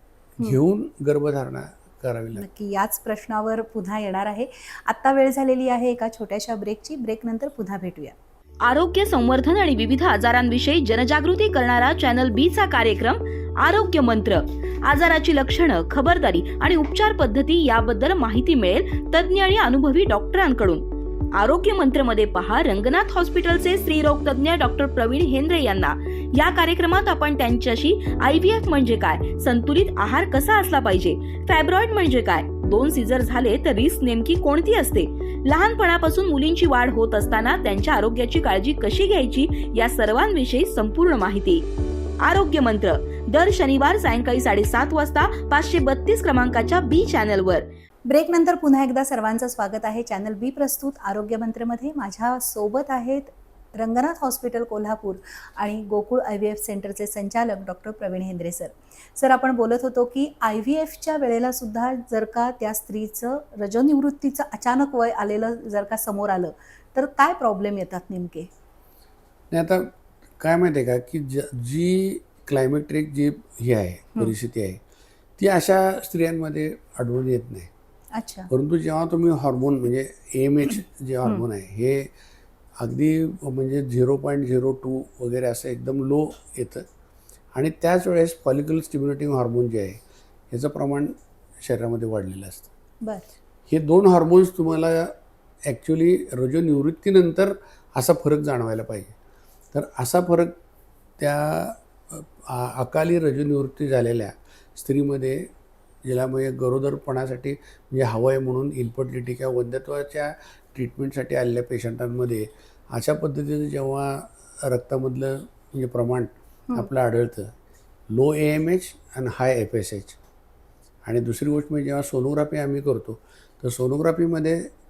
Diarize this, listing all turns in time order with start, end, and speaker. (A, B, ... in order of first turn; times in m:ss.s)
0:00.4-0:02.5 A
0:02.4-0:08.2 B
0:08.6-0:20.8 C
0:21.4-0:41.7 C
0:42.2-0:47.7 C
0:48.1-1:08.5 B
1:09.5-1:14.8 A
1:15.4-1:17.7 A
1:18.2-1:18.5 B
1:18.5-1:22.1 A
1:22.8-1:26.9 A
1:27.5-1:32.7 A
1:33.0-1:33.3 B
1:33.7-1:39.1 A
1:39.7-1:40.6 A
1:41.2-1:45.5 A
1:46.0-1:57.5 A
1:58.1-2:00.2 A
2:01.1-2:04.7 A